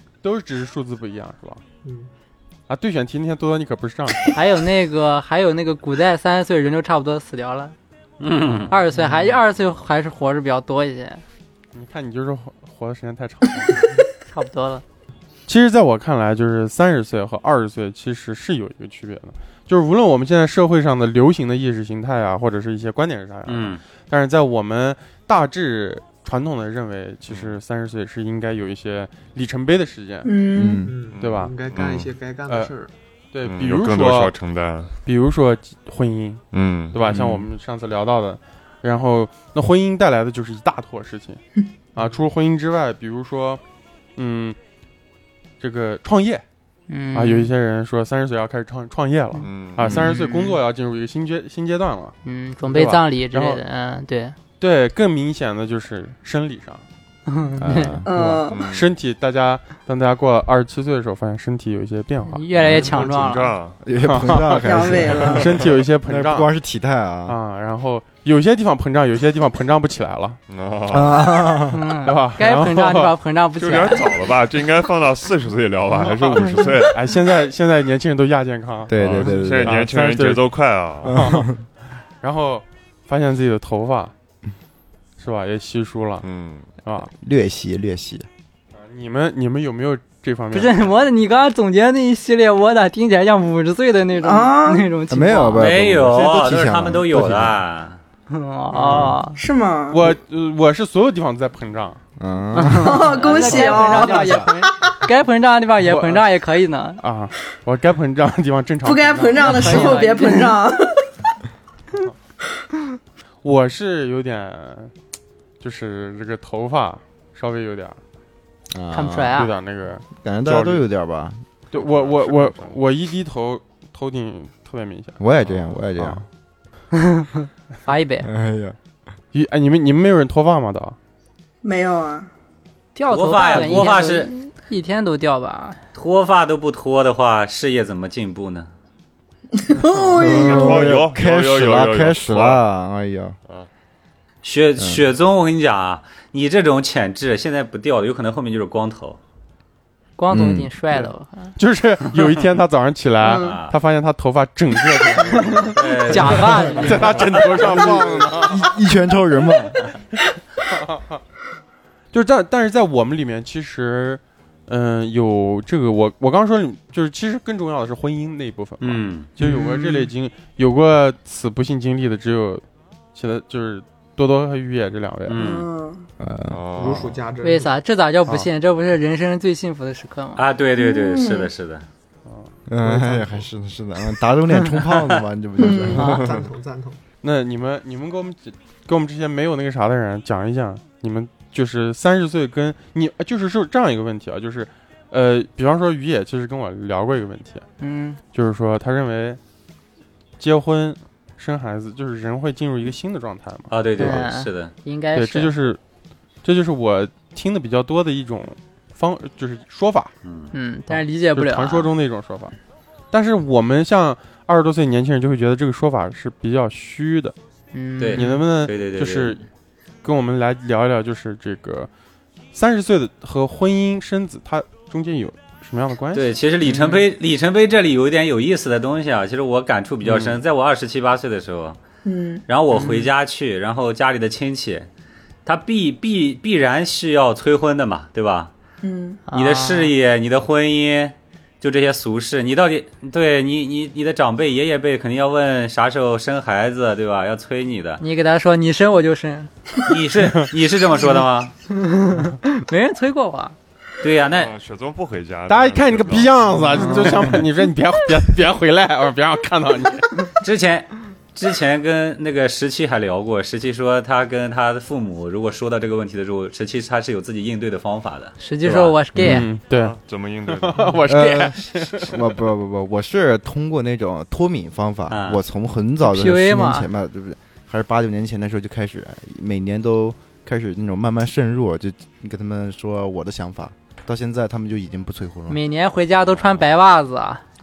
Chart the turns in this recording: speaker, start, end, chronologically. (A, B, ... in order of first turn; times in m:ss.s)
0:00.2-0:01.6 A
0:01.8-0:02.1 B
0:02.7-0:04.3 A
0:04.3-0:07.7 C
0:08.2-0:08.7 D
0:08.7-0:11.2 C
0:11.7-0:13.9 A
0:14.3-0:14.8 C
0:15.5-0:30.3 A
0:23.4-0:23.8 D
0:27.3-0:27.6 E
0:30.2-0:30.9 F
0:30.6-0:30.9 G
0:30.8-0:32.9 B
0:31.1-0:32.1 E
0:31.2-0:31.5 A
0:33.3-0:34.4 A
0:33.4-0:34.9 E
0:35.0-0:41.4 A
0:36.5-0:37.4 E
0:41.9-0:43.6 A
0:44.2-0:44.6 A
0:45.6-0:46.4 A
0:46.9-0:47.5 C
0:47.1-0:53.6 A
0:49.4-0:50.0 E
0:49.8-0:50.1 G
0:50.0-0:50.6 C
0:52.2-0:54.4 C
0:54.6-0:56.8 A
0:57.3-0:58.0 C
0:57.6-0:58.1 G
0:58.0-0:58.6 F
0:58.1-1:02.4 A
0:58.5-0:58.9 E
1:02.3-1:03.5 C
1:02.6-1:03.8 E
1:03.8-1:05.5 G
1:04.0-1:06.5 A
1:04.6-1:05.6 F
1:06.0-1:07.4 G
1:07.3-1:10.4 A
1:10.5-1:11.4 E
1:10.9-1:11.8 G
1:11.7-1:14.2 C
1:12.0-1:13.1 A
1:13.6-1:17.2 E
1:16.0-1:21.5 A
1:18.9-1:19.9 G
1:18.9-1:21.2 E
1:21.0-1:21.6 G
1:22.2-1:24.1 A
1:25.2-1:26.2 A
1:26.2-1:26.8 E
1:26.8-1:27.1 A
1:27.2-1:28.2 G
1:28.8-1:30.9 A
1:30.5-1:35.6 C
1:34.2-1:34.9 F
1:35.1-1:37.6 G
1:35.6-1:38.0 D
1:38.3-1:39.4 C
1:38.7-1:39.2 A
1:38.9-1:40.0 F
1:39.9-1:42.0 A
1:42.2-1:43.0 G
1:42.5-1:47.0 C
1:42.8-1:44.9 F
1:43.2-1:44.4 A
1:45.8-1:46.2 A
1:47.0-1:50.3 A
1:48.8-1:51.0 F
1:49.4-1:50.6 C
1:53.4-1:54.9 A
1:55.6-1:58.0 A
1:58.7-1:59.4 G
1:58.9-1:59.5 C
1:59.3-2:00.8 A
2:00.1-2:01.4 G
2:01.7-2:06.2 A
2:01.8-2:02.7 E
2:05.2-2:06.2 G
2:06.9-2:08.3 C
2:08.2-2:08.8 G
2:09.3-2:11.0 A
2:11.6-2:12.3 F
2:12.9-2:15.8 C
2:13.1-2:14.3 D
2:15.9-2:18.7 D
2:19.6-2:21.0 F
2:20.2-2:22.6 E
2:20.2-2:23.4 G
2:24.4-2:29.2 D
2:24.8-2:25.0 G
2:30.2-2:31.6 C
2:30.3-2:30.7 G
2:30.9-2:38.7 A
2:33.2-2:33.8 D
2:33.3-2:33.5 F
2:35.6-2:37.2 C
2:35.7-2:36.7 D
2:37.4-2:38.3 E
2:37.7-2:39.8 G
2:40.9-2:41.2 A
2:42.1-2:52.6 A
2:48.8-2:49.3 D
2:49.4-2:50.1 C
2:53.1-2:55.4 A
2:55.3-2:55.7 D
2:55.4-2:56.0 F
2:56.2-2:56.6 G
2:56.5-2:57.2 E
2:56.7-2:57.8 B
2:57.4-3:00.4 C
3:00.4-3:01.8 D
3:00.8-3:01.5 F
3:02.2-3:02.5 A
3:02.7-3:06.4 G
3:02.8-3:03.4 B
3:04.9-3:05.2 D
3:05.6-3:06.0 F
3:05.9-3:06.2 C
3:05.9-3:07.0 B
3:07.2-3:17.6 A
3:17.8-3:18.2 C
3:18.3-3:19.4 A
3:20.4-3:24.2 A
3:23.7-3:24.7 D
3:24.0-3:25.5 C
3:25.1-3:25.8 A
3:26.4-3:30.1 A
3:30.2-3:30.5 D
3:30.5-3:31.9 C
3:30.9-3:32.5 A
3:33.1-3:37.3 A
3:37.7-3:38.4 C
3:38.0-3:39.4 D
3:38.1-3:39.4 A
3:40.0-3:41.9 A
3:42.5-3:46.3 A
3:46.1-3:51.8 D
3:46.6-3:47.0 C
3:50.0-3:50.4 A
3:52.0-3:52.4 F
3:52.5-3:54.9 D
3:52.7-3:53.1 C
3:55.4-3:58.5 D
3:58.8-3:59.2 F
3:59.3-3:59.9 C
3:59.3-4:08.0 D
4:08.0-4:09.5 C
4:09.9-4:11.5 D
4:11.7-4:13.5 C
4:14.0-4:14.5 D
4:14.3-4:17.4 E
4:15.5-4:20.2 A
4:20.4-4:28.9 D
4:28.4-4:29.4 C
4:29.1-4:29.5 G
4:29.2-4:30.0 A
4:29.7-4:31.1 E
4:30.5-4:32.1 A
4:31.1-4:45.6 G
4:35.1-4:35.4 D
4:36.0-4:36.8 C
4:45.5-4:47.4 C